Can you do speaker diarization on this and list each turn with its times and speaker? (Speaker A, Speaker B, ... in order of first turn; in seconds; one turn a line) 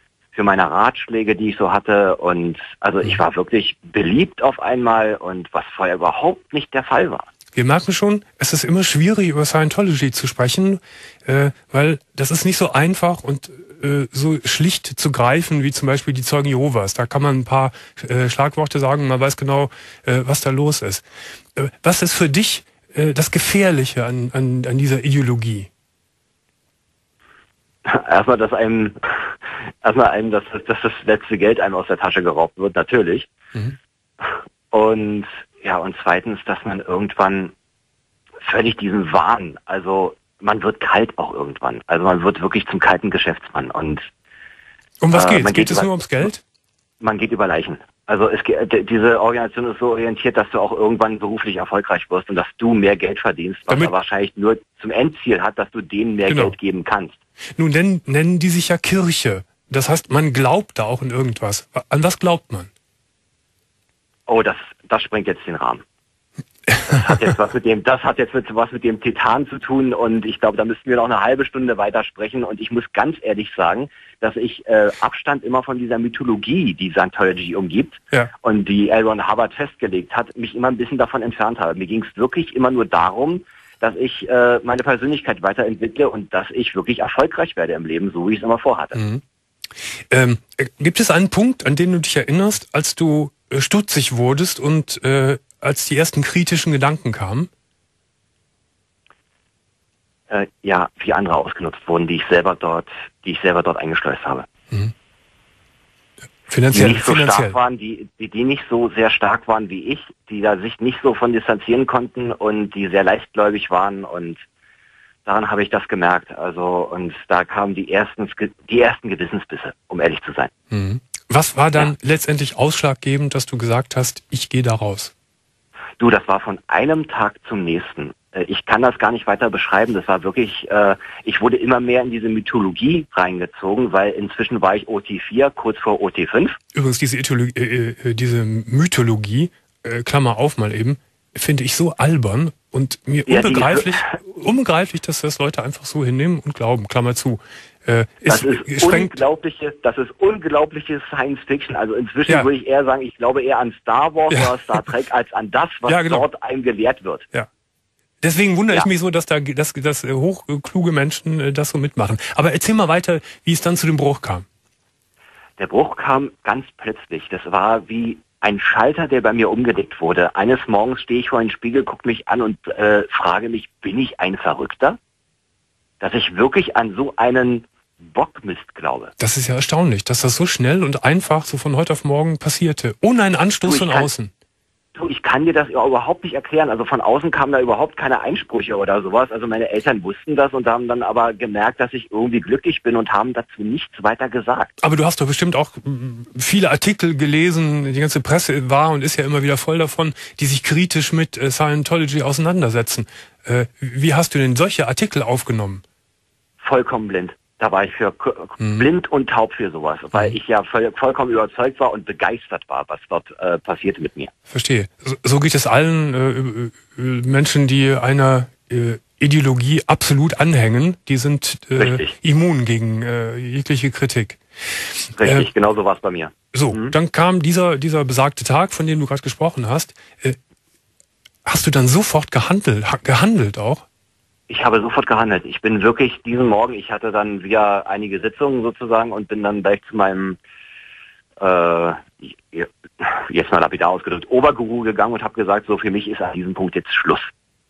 Speaker A: 0.3-7.3
Speaker B: 7.5-25.7
Speaker A: 27.9-33.3
Speaker A: 34.2-37.5
Speaker A: 38.4-44.0
Speaker B: 45.0-46.4
Speaker A: 45.1-45.9
Speaker A: 47.0-57.2
Speaker B: 56.3-56.5
Speaker B: 57.6-62.7
Speaker A: 64.3-65.8
Speaker A: 66.8-89.0
Speaker B: 88.9-89.2
Speaker B: 90.0-97.5
Speaker A: 100.3-104.5
Speaker B: 106.5-107.5
Speaker A: 106.7-114.4
Speaker A: 115.2-120.5
Speaker B: 120.7-125.1
Speaker A: 126.0-136.6
Speaker B: 136.7-149.2
Speaker A: 143.3-144.1
Speaker A: 148.3-157.3
Speaker B: 155.9-156.2
Speaker B: 158.2-164.5
Speaker A: 165.6-175.0
Speaker A: 176.0-179.1
Speaker B: 179.2-184.3
Speaker A: 183.7-184.1
Speaker A: 184.9-194.7
Speaker B: 194.8-205.8
Speaker A: 206.6-214.3
Speaker B: 208.6-208.8
Speaker B: 214.5-224.4
Speaker A: 221.8-222.2
Speaker B: 225.0-225.4
Speaker A: 225.2-226.9
Speaker B: 226.5-230.4
Speaker B: 231.5-233.8
Speaker A: 234.5-240.4
Speaker A: 241.4-247.3